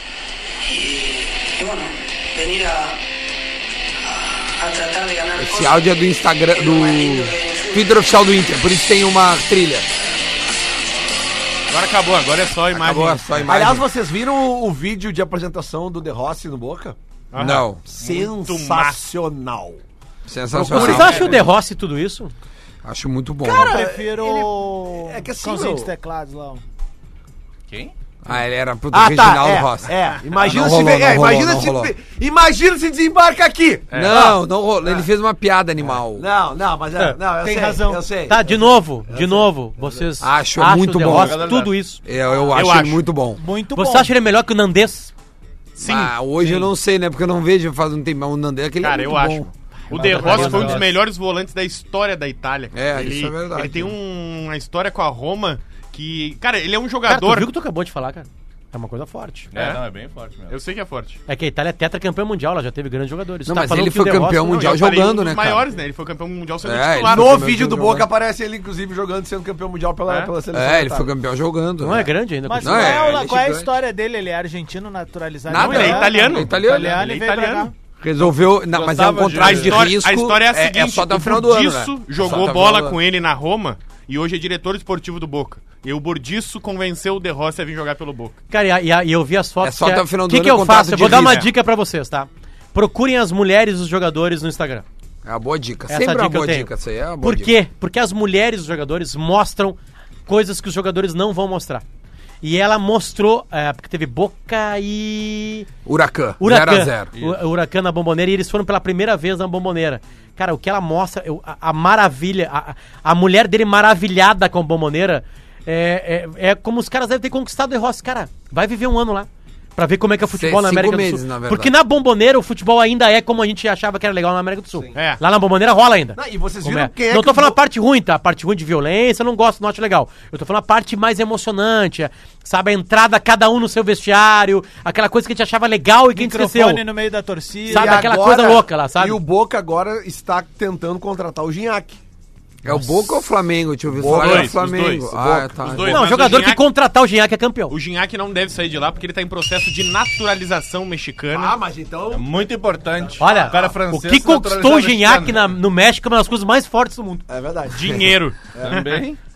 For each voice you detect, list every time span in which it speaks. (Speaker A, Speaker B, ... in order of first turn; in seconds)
Speaker A: 0.6-3.0, 4.0-5.9, 6.5-7.9
Speaker B: 5.4-9.9, 12.7-13.8, 17.4-17.8, 20.3-21.3, 22.8-23.9, 28.2-31.9, 33.9-36.2, 40.2-41.5, 42.0-43.4, 45.8-49.5, 52.7-53.9, 63.5-65.7, 66.6-68.1, 70.5-73.7, 75.5-77.0, 78.0-83.0, 89.6-91.5, 95.2-97.5, 105.8-107.1, 120.3-121.7, 142.6-146.3
Speaker C: 11.7-13.5, 17.3-19.0, 33.9-34.2, 42.5-43.0, 45.8-46.1, 48.8-57.5, 59.5-59.8, 60.5-61.2, 64.5-67.4, 70.1-70.3, 75.5-77.7, 79.3-88.4, 91.0-91.5, 124.9-125.2, 144.0-146.6, 147.7-151.6, 157.7-158.8
Speaker D: 13.4-16.9, 17.9-19.8, 20.5-21.4, 23.4-25.9, 28.9-35.0, 36.1-40.1, 67.1-71.1, 126.2-127.6, 137.7-142.0, 143.9-144.6, 145.1-145.7, 151.3-152.3, 153.2-153.6, 157.3-157.9, 158.6-158.8
Speaker E: 18.0-18.3, 20.7-21.5, 27.7-27.9, 41.0-41.8, 49.9-50.9, 59.5-60.6, 76.5-77.0, 78.2-80.0, 107.1-107.4, 152.1-155.5, 158.6-159.2
Speaker F: 20.7-22.3, 38.3-42.0, 43.7-45.1, 49.9-50.9, 57.1-59.5, 61.3-64.7, 71.8-73.1, 88.5-94.8, 95.9-101.8, 102.4-105.7, 106.4-136.8, 137.7-139.2, 145.8-147.7, 153.2-157.2
Speaker G: 23.4-26.6, 37.4-38.0, 43.4-44.1, 72.5-77.7, 136.1-138.1